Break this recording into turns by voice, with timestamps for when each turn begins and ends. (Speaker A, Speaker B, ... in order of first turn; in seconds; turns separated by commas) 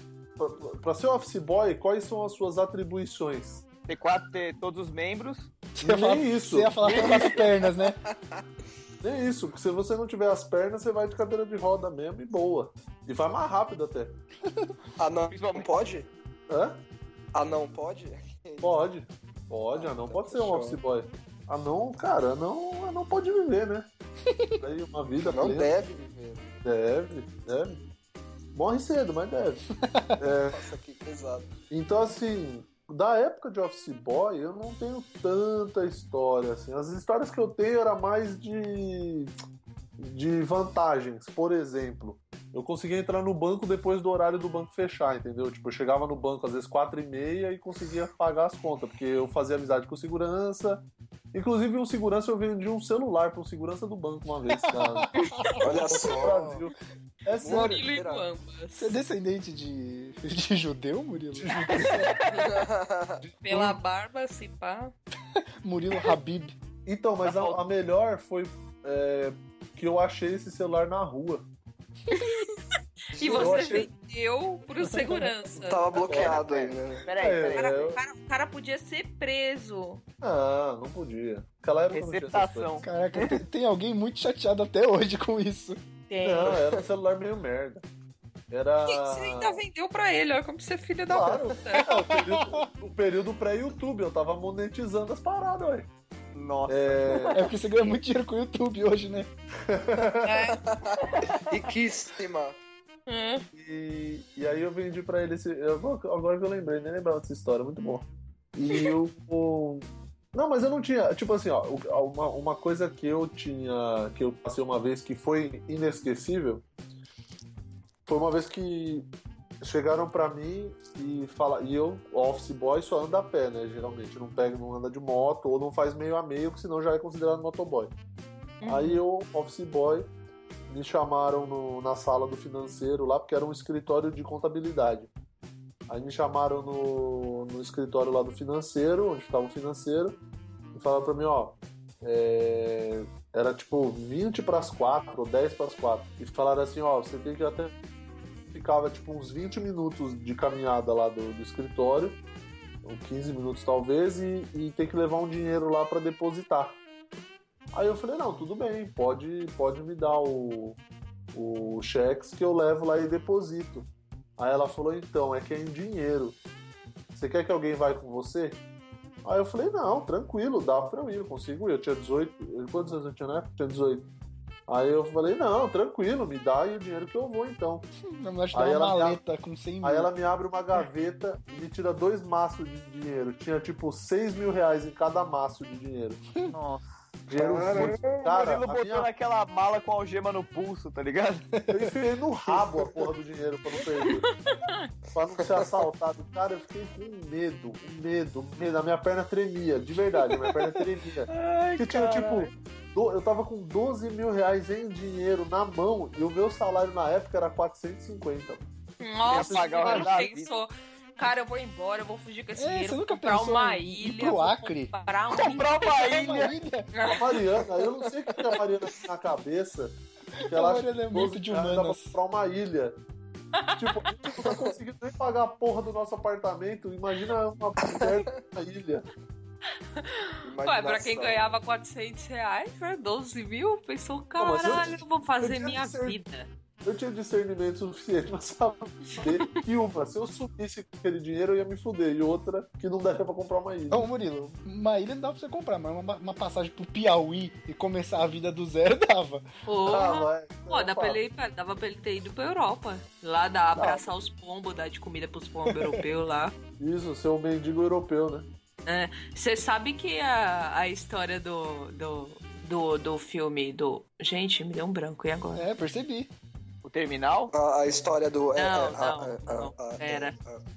Speaker A: 0.4-3.6, Speaker B: 3.9-5.5, Speaker C: 5.8-8.0, Speaker A: 5.8-7.0, Speaker B: 6.8-7.4, Speaker A: 9.0-14.2, Speaker D: 15.0-16.1, Speaker B: 15.3-15.7, Speaker A: 16.5-16.8, Speaker D: 17.3-18.8, Speaker A: 18.6-23.9, Speaker D: 19.7-20.8, Speaker C: 24.2-24.6, Speaker A: 24.6-25.7, Speaker D: 25.2-26.6, Speaker A: 26.6-27.8, Speaker A: 28.6-29.7, Speaker C: 29.8-30.2, Speaker A: 30.2-30.6, Speaker D: 30.5-31.6, Speaker A: 31.7-39.3, Speaker A: 40.0-57.9, Speaker C: 54.5-55.8, Speaker D: 55.6-56.6, Speaker D: 57.4-58.3, Speaker E: 57.4-59.0, Speaker C: 58.8-62.1, Speaker A: 61.4-62.1, Speaker D: 62.3-63.2, Speaker A: 63.2-63.8, Speaker E: 63.4-64.9, Speaker C: 65.3-66.6, Speaker A: 66.9-71.5, Speaker B: 67.2-67.6, Speaker E: 72.1-72.6, Speaker C: 72.1-72.4, Speaker D: 73.2-73.8, Speaker E: 73.2-75.9, Speaker A: 73.3-73.9, Speaker C: 74.9-75.2, Speaker D: 75.6-77.1, Speaker A: 76.0-76.4, Speaker B: 76.0-78.0, Speaker A: 77.2-78.0, Speaker E: 77.5-80.0, Speaker A: 80.2-82.8, Speaker B: 81.9-83.4, Speaker C: 82.8-85.8, Speaker E: 86.1-86.6, Speaker A: 86.2-87.8, Speaker D: 86.4-86.8, Speaker A: 88.5-89.6, Speaker E: 88.9-91.9, Speaker A: 91.1-95.9, Speaker C: 91.9-92.7, Speaker B: 96.3-97.3, Speaker A: 96.7-97.5, Speaker C: 97.3-99.3, Speaker A: 99.7-100.5, Speaker E: 100.2-100.6, Speaker D: 100.7-102.6, Speaker B: 101.2-101.5, Speaker E: 103.1-103.5, Speaker A: 103.5-116.7, Speaker A: 118.1-119.1, Speaker A: 119.6-127.9, Speaker E: 128.6-129.0, Speaker A: 128.7-130.1, Speaker A: 130.7-135.1, Speaker A: 135.9-140.2, Speaker A: 140.7-147.7, Speaker A: 148.5-152.2, Speaker A: 152.8-156.8, Speaker A: 157.7-160.8, Speaker A: 161.3-166.4, Speaker A: 167.1-168.6, Speaker A: 169.2-174.1, Speaker A: 174.7-177.9, Speaker C: 178.0-180.1, Speaker A: 178.5-179.2, Speaker A: 179.8-186.2, Speaker B: 186.4-191.5, Speaker A: 187.3-189.1, Speaker D: 187.4-188.3, Speaker C: 191.6-191.9, Speaker A: 191.7-194.3, Speaker E: 194.0-194.9, Speaker A: 195.1-208.6, Speaker D: 195.4-195.8, Speaker B: 201.3-202.5, Speaker E: 209.0-215.9, Speaker A: 209.3-210.3, Speaker B: 209.3-210.5, Speaker C: 212.6-214.9, Speaker B: 215.3-216.5, Speaker C: 215.8-216.9, Speaker E: 216.9-217.4, Speaker A: 217.1-220.0, Speaker C: 220.4-222.2, Speaker A: 220.5-223.0, Speaker E: 223.5-224.1, Speaker A: 223.8-229.1, Speaker D: 227.9-228.4, Speaker E: 230.0-236.5, Speaker D: 230.4-231.6, Speaker A: 234.4-236.2, Speaker A: 236.8-244.1, Speaker E: 239.1-239.6, Speaker C: 243.9-249.4, Speaker E: 249.7-256.6, Speaker A: 249.8-251.2, Speaker A: 253.8-254.1, Speaker C: 255.7-256.0, Speaker A: 256.8-258.5, Speaker E: 258.9-265.7, Speaker C: 265.5-266.3, Speaker B: 266.8-267.5, Speaker D: 267.5-270.6, Speaker E: 268.6-270.4